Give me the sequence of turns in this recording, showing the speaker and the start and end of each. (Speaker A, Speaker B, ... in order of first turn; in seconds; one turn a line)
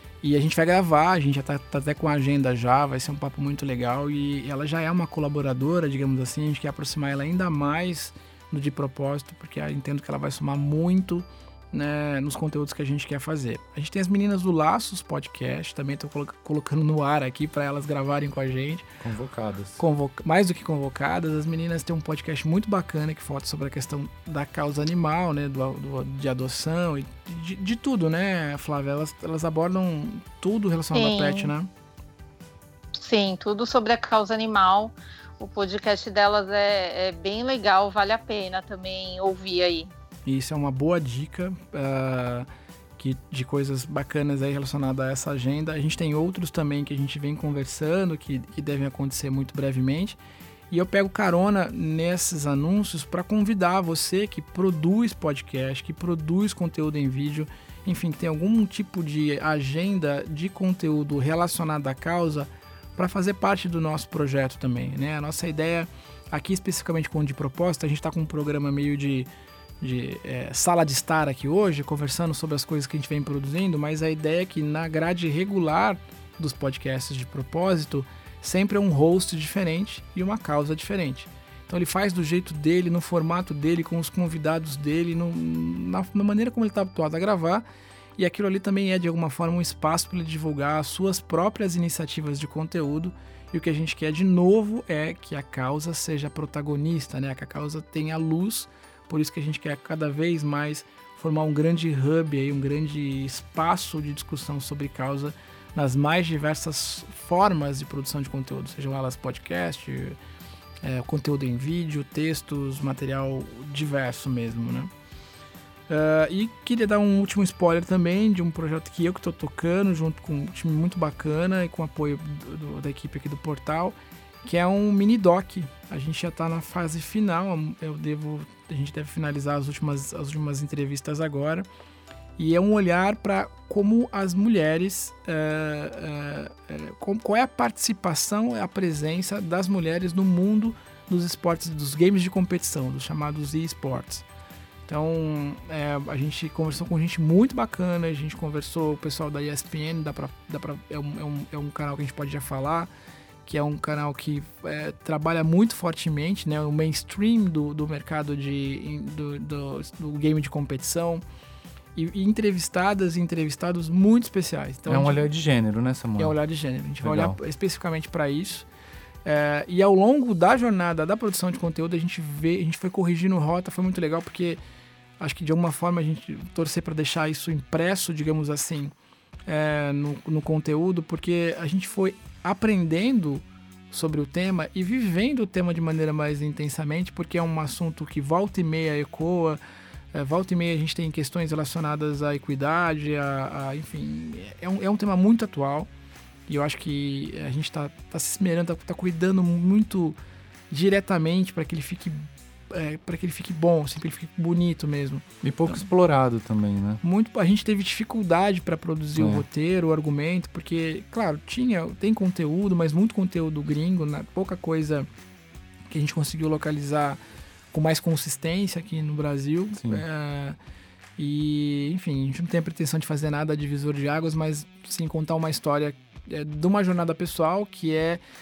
Speaker A: 0.2-18.9
Speaker B: 19.0-19.8
Speaker A: 19.8-31.7
Speaker C: 30.9-31.5
Speaker C: 33.0-39.9
Speaker A: 40.2-42.5
Speaker A: 43.0-50.2
Speaker A: 50.7-69.3
Speaker A: 69.8-87.6
Speaker A: 88.2-110.2
Speaker A: 110.8-114.9
Speaker A: 115.9-131.6
Speaker A: 132.4-144.2
Speaker A: 144.9-152.9
Speaker A: 153.4-161.2
Speaker A: 161.9-165.2
Speaker B: 164.9-166.3
Speaker A: 166.2-168.7
Speaker B: 167.0-167.4
Speaker A: 169.2-174.6
Speaker A: 175.2-178.9
Speaker A: 179.5-189.6
Speaker A: 190.1-195.9
Speaker A: 196.5-200.2
Speaker A: 200.7-205.8
Speaker B: 205.4-207.0
Speaker A: 207.0-215.1
Speaker B: 209.2-209.4
Speaker A: 215.9-217.2
Speaker A: 217.7-220.6
Speaker B: 219.8-220.0
Speaker A: 221.2-228.2